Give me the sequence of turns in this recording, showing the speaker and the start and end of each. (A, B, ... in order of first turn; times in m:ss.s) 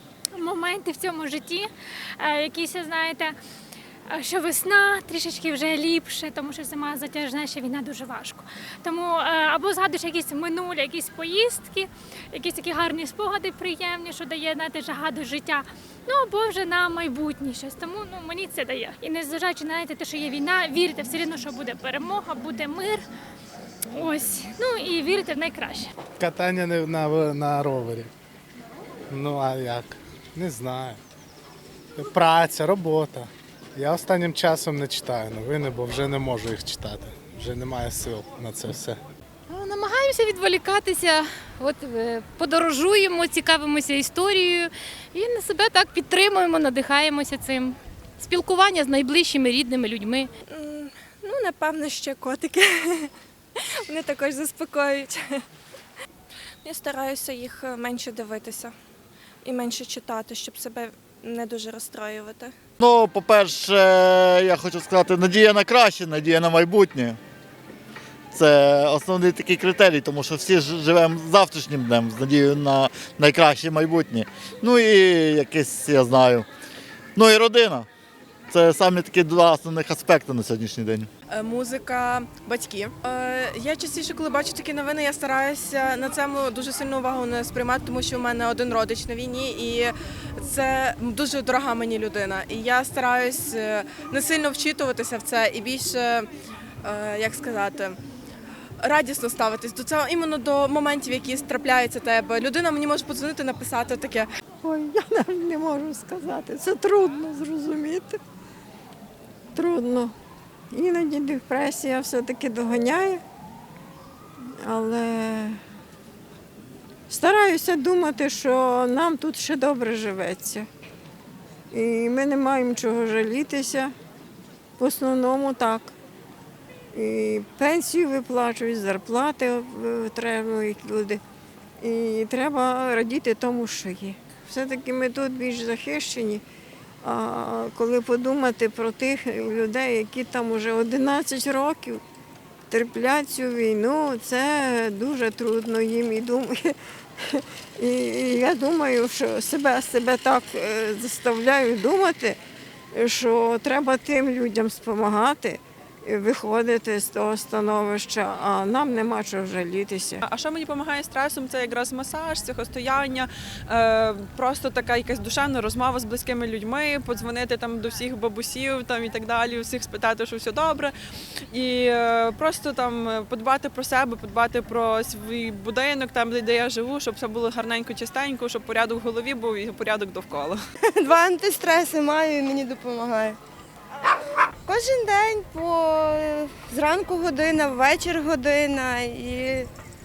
0:00.4-0:03.3 A
0:04.1-0:23.0 A
0:23.9-0:25.9 A
0:26.2-0:28.1 B
0:29.1-0:31.0 B
0:32.0-0:39.0 B
0:39.5-0:50.3 C
0:50.5-0:53.1 D
0:53.9-0:55.4 D
0:56.6-0:58.7 D
0:59.4-1:02.5 D
1:02.8-1:07.2 E
1:08.3-1:16.4 E
1:17.2-1:17.8 E
1:18.5-1:21.0 E
1:21.3-1:36.3 F
1:36.8-1:38.0 F
1:38.8-1:44.3 F
1:44.6-1:48.2 G
1:49.5-1:50.1 G
1:50.7-1:53.2 G
1:54.6-1:55.6 G
1:57.1-2:00.7 G
2:01.7-2:03.9 G
2:04.8-2:05.9 G
2:06.9-2:11.2 G
2:11.8-2:16.4 G
2:17.0-2:22.0 G
2:22.7-2:32.4 G
2:32.9-2:40.2 G
2:40.2-2:50.9 H
2:51.5-3:00.6 H
3:01.0-3:03.4 I
3:04.5-3:09.7 I